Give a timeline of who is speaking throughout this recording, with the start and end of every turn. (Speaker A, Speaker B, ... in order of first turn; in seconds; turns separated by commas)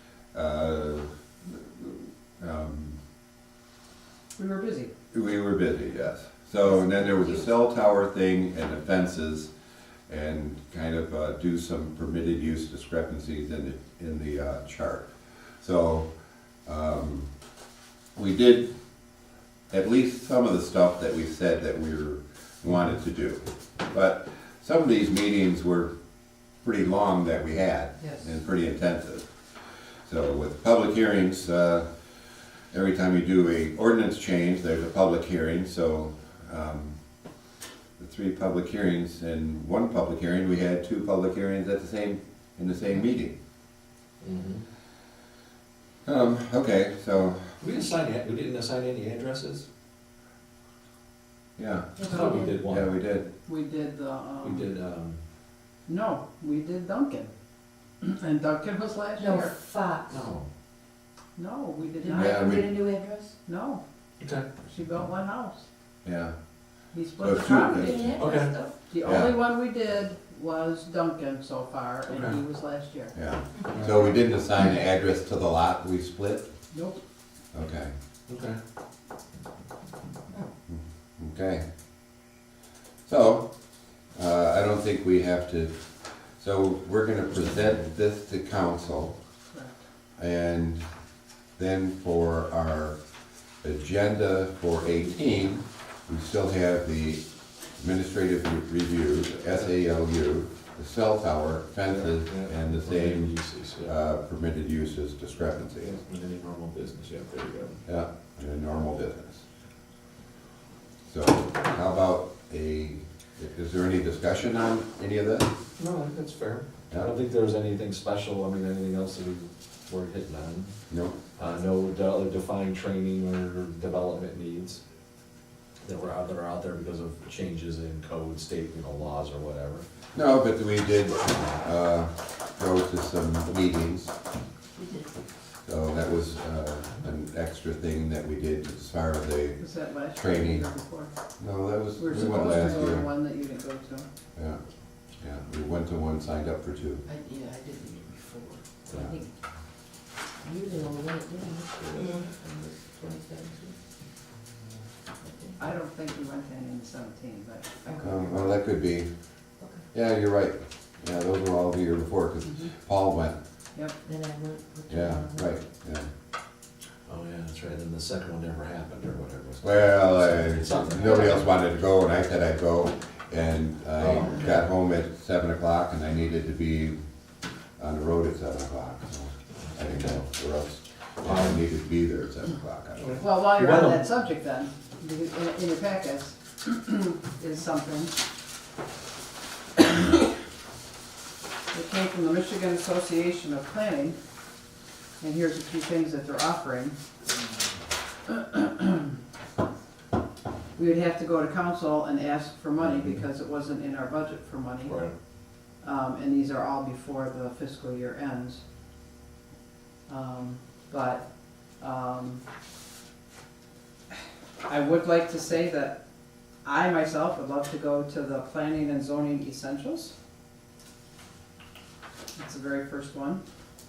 Speaker A: 0.3-3.0, Speaker B: 4.3-4.9, Speaker A: 5.1-9.5, Speaker A: 10.1-16.1, Speaker A: 16.7-17.3, Speaker A: 18.2-18.7, Speaker A: 19.7-25.9, Speaker A: 26.6-29.3, Speaker B: 28.0-28.3, Speaker A: 30.1-31.9, Speaker A: 32.7-37.0, Speaker A: 38.0-43.3, Speaker C: 44.2-44.6, Speaker A: 46.0-47.5, Speaker C: 47.6-49.7, Speaker A: 51.6-53.3, Speaker D: 52.0-52.6, Speaker C: 52.0-52.9, Speaker B: 53.5-54.6, Speaker C: 54.4-55.2, Speaker B: 55.9-57.3, Speaker B: 58.0-59.5, Speaker D: 59.2-60.3, Speaker C: 60.1-60.5, Speaker B: 61.4-62.6, Speaker D: 62.0-63.4, Speaker A: 62.1-62.7, Speaker B: 63.5-63.8, Speaker C: 64.2-64.5, Speaker B: 64.6-65.7, Speaker A: 66.0-66.3, Speaker B: 66.9-68.1, Speaker A: 67.2-68.2, Speaker D: 67.6-68.7, Speaker C: 68.2-68.5, Speaker B: 68.9-73.2, Speaker A: 69.0-69.4, Speaker C: 72.1-72.4, Speaker A: 73.1-76.5, Speaker B: 76.7-77.0, Speaker A: 77.5-77.9, Speaker C: 78.3-78.6, Speaker A: 80.7-81.6, Speaker A: 83.0-83.5, Speaker A: 84.1-85.7, Speaker A: 86.4-89.1, Speaker B: 89.5-89.8, Speaker A: 90.2-90.8, Speaker A: 91.6-93.0, Speaker A: 93.6-97.2, Speaker A: 97.8-106.0, Speaker C: 101.9-103.9, Speaker C: 105.8-107.8, Speaker A: 107.8-109.4, Speaker A: 111.1-115.5, Speaker C: 115.8-120.7, Speaker A: 120.9-121.2, Speaker C: 121.4-124.8, Speaker C: 125.8-129.8, Speaker A: 130.1-134.1, Speaker D: 134.8-135.1, Speaker A: 135.7-140.7, Speaker B: 139.6-141.1, Speaker A: 141.4-143.1, Speaker B: 142.0-144.1, Speaker A: 145.2-147.1, Speaker D: 147.1-149.3, Speaker A: 148.9-149.2, Speaker D: 150.4-153.8, Speaker D: 155.2-155.6, Speaker B: 155.6-158.3, Speaker D: 157.9-158.5, Speaker A: 158.0-159.1, Speaker A: 159.9-163.4, Speaker D: 164.0-165.5, Speaker A: 164.9-166.1, Speaker C: 167.1-171.4, Speaker A: 169.6-177.0, Speaker C: 174.0-174.6, Speaker A: 177.8-183.2, Speaker C: 179.8-180.2, Speaker C: 181.2-181.6, Speaker C: 183.0-184.1, Speaker B: 183.2-188.2, Speaker B: 189.8-190.2, Speaker B: 191.7-194.2, Speaker B: 195.2-197.0, Speaker B: 198.3-199.1, Speaker B: 200.8-205.1, Speaker C: 202.8-203.2, Speaker C: 204.9-205.1, Speaker B: 205.7-208.6, Speaker B: 210.1-211.2, Speaker B: 211.8-212.4, Speaker B: 214.7-216.0, Speaker B: 216.6-220.1, Speaker B: 222.4-223.4